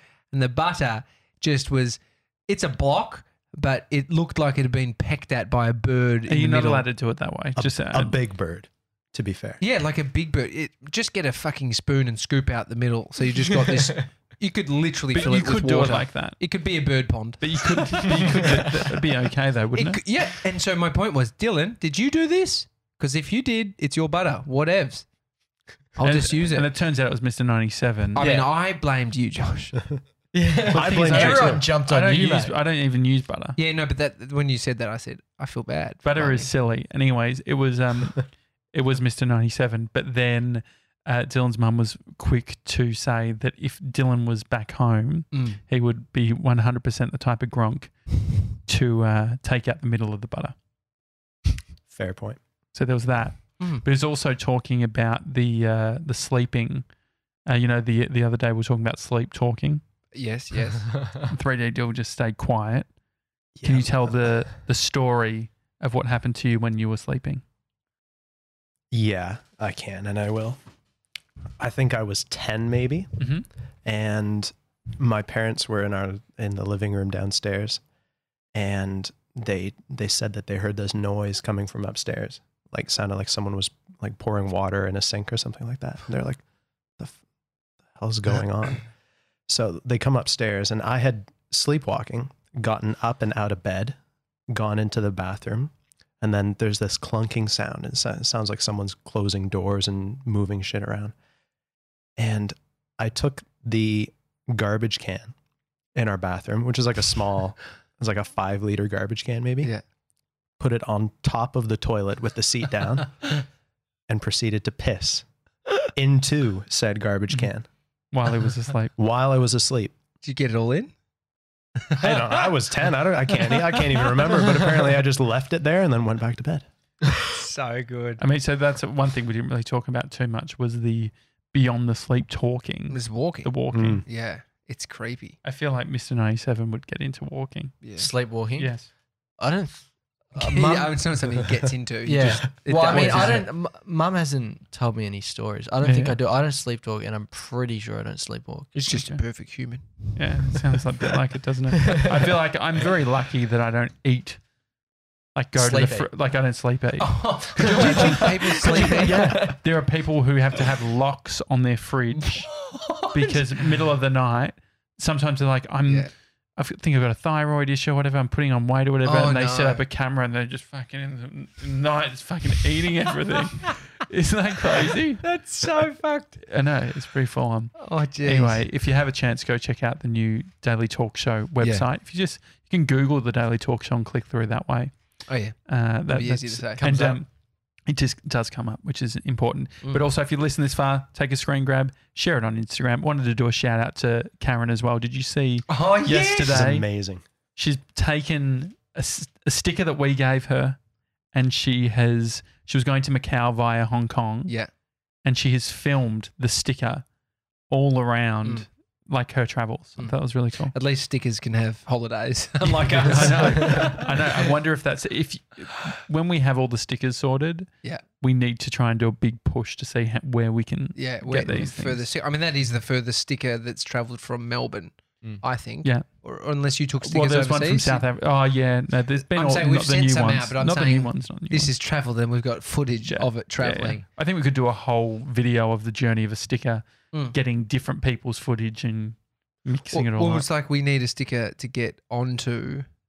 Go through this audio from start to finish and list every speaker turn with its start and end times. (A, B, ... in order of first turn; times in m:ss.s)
0:00.3-0:06.9 A
0:06.3-0:08.2 B
0:07.6-0:09.6 C
0:09.6-0:18.8 A
0:15.1-0:16.4 B
0:17.4-0:20.0 B
0:19.7-0:25.0 A
0:26.0-0:26.7 A
0:26.0-0:28.2 B
0:28.1-0:29.8 A
0:28.2-0:28.5 D
0:30.3-0:32.6 D
0:30.7-0:31.7 C
0:30.8-0:33.6 B
0:33.6-0:36.5 A
0:36.0-0:50.5 B
0:45.3-0:45.6 A
0:51.9-0:52.4 C
0:52.7-0:56.9 B
0:53.6-0:53.8 A
0:57.4-0:59.8 B
1:00.1-1:00.9 A
1:01.3-1:02.9 B
1:03.6-1:04.4 C
1:03.6-1:07.4 B
1:08.9-1:10.6 C
1:11.6-1:13.1 C
1:13.2-1:13.4 B
1:13.8-1:17.8 C
1:18.5-1:26.4 C
1:28.0-1:28.8 C
1:29.5-1:34.0 C
1:34.5-1:41.1 C
1:42.2-1:45.3 C
1:45.9-1:49.7 C
1:50.6-1:53.3 C
1:54.1-1:55.2 C
1:55.9-1:57.7 C
1:58.1-1:58.9 B
1:59.0-1:59.9 C
2:00.2-2:00.9 A
2:01.8-2:02.6 A
2:02.0-2:06.6 C
2:03.3-2:04.4 A
2:07.2-2:08.2 A
2:08.2-2:14.0 B
2:12.9-2:15.4 A
2:13.7-2:14.0 C
2:15.4-2:17.8 B
2:17.8-2:18.1 A
2:18.0-2:21.4 D
2:18.6-2:18.9 B
2:20.3-2:23.5 A
2:22.0-2:28.8 D
2:22.8-2:23.5 B
2:25.8-2:26.2 B
2:28.7-2:30.5 A
2:28.9-2:29.2 B
2:30.1-2:34.4 B
2:35.3-2:55.2 B
2:35.6-2:36.1 D
2:37.0-2:39.2 A
2:37.6-2:39.6 D
2:42.2-2:43.4 A
2:45.9-2:46.1 A
2:49.0-2:49.8 A
2:55.2-2:56.4 A
2:56.4-3:05.0 B
2:57.8-2:58.6 A
3:01.6-3:01.9 A
3:05.3-3:07.2 A
3:05.6-3:07.3 B
3:06.8-3:07.1 D
3:07.9-3:16.9 B
3:15.7-3:16.7 A
3:16.4-3:17.2 C
3:17.6-3:20.8 B
3:21.3-3:24.5 B
3:25.2-3:27.0 B
3:27.7-3:30.7 B
3:30.7-3:34.4 A
3:32.9-3:42.0 B
3:33.6-3:33.9 D
3:40.9-3:48.0 A
3:47.0-3:51.7 B
3:49.2-3:54.0 A
3:53.1-4:00.4 B
3:59.9-4:02.9 A